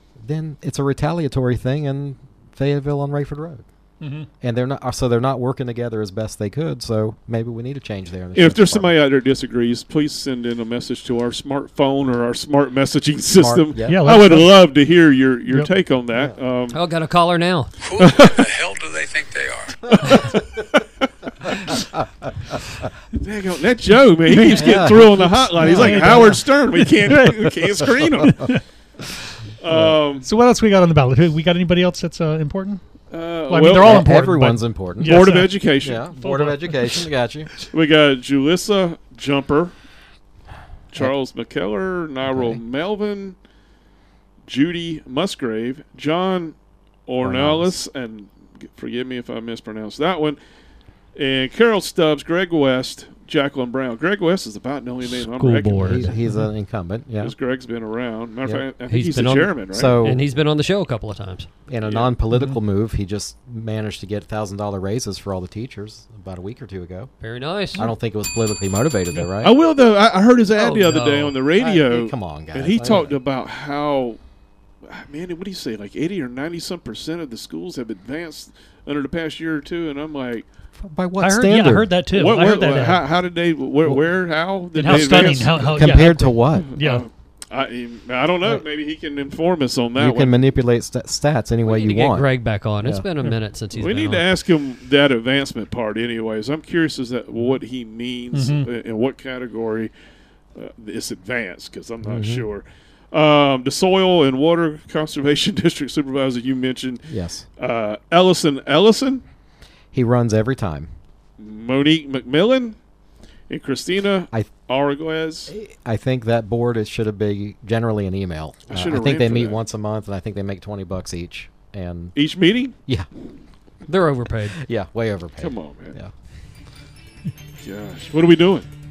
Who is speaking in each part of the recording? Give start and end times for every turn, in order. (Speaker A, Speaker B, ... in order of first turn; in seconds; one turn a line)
Speaker A: 0.2-3.6
Speaker B: 4.0-4.3
Speaker A: 4.4-8.9
Speaker C: 8.3-16.8
Speaker A: 13.3-14.3
Speaker B: 13.8-14.5
Speaker D: 16.7-17.7
Speaker E: 17.8-19.8
Speaker C: 18.0-18.5
Speaker C: 19.9-21.9
Speaker C: 23.1-28.5
Speaker B: 24.3-24.6
Speaker A: 24.5-26.4
Speaker B: 25.6-26.5
Speaker B: 27.1-27.3
Speaker A: 27.8-28.3
Speaker B: 28.2-28.6
Speaker C: 29.6-30.3
Speaker B: 30.2-32.8
Speaker C: 33.1-34.1
Speaker B: 33.5-37.0
Speaker A: 33.8-37.5
Speaker C: 35.0-36.1
Speaker C: 37.7-39.7
Speaker C: 40.9-43.4
Speaker A: 42.3-42.6
Speaker C: 44.5-46.5
Speaker C: 47.1-50.4
Speaker A: 47.2-47.7
Speaker C: 51.1-56.1
Speaker D: 55.2-56.2
Speaker A: 55.8-57.4
Speaker B: 56.2-56.5
Speaker C: 57.2-60.1
Speaker D: 58.9-61.5
Speaker A: 59.7-60.2
Speaker A: 61.7-67.1
Speaker C: 61.8-62.1
Speaker B: 62.3-62.6
Speaker D: 67.2-67.9
Speaker A: 67.8-69.5
Speaker C: 69.4-74.2
Speaker D: 70.6-71.3
Speaker A: 71.5-73.1
Speaker C: 74.8-80.4
Speaker A: 80.8-81.9
Speaker B: 81.2-83.0
Speaker C: 82.1-86.0
Speaker B: 84.7-87.0
Speaker A: 84.8-86.7
Speaker C: 86.5-90.4
Speaker A: 90.0-92.3
Speaker D: 91.7-94.2
Speaker C: 93.7-99.9
Speaker B: 98.3-98.7
Speaker C: 100.5-107.0
Speaker A: 102.0-102.4
Speaker A: 107.1-107.5
Speaker C: 107.6-109.2
Speaker A: 109.9-110.9
Speaker C: 111.4-112.8
Speaker C: 113.5-115.5
Speaker A: 115.5-122.2
Speaker C: 118.7-119.6
Speaker C: 122.1-122.7
Speaker D: 123.8-124.6
Speaker A: 124.5-126.1
Speaker C: 125.4-126.0
Speaker C: 127.6-128.7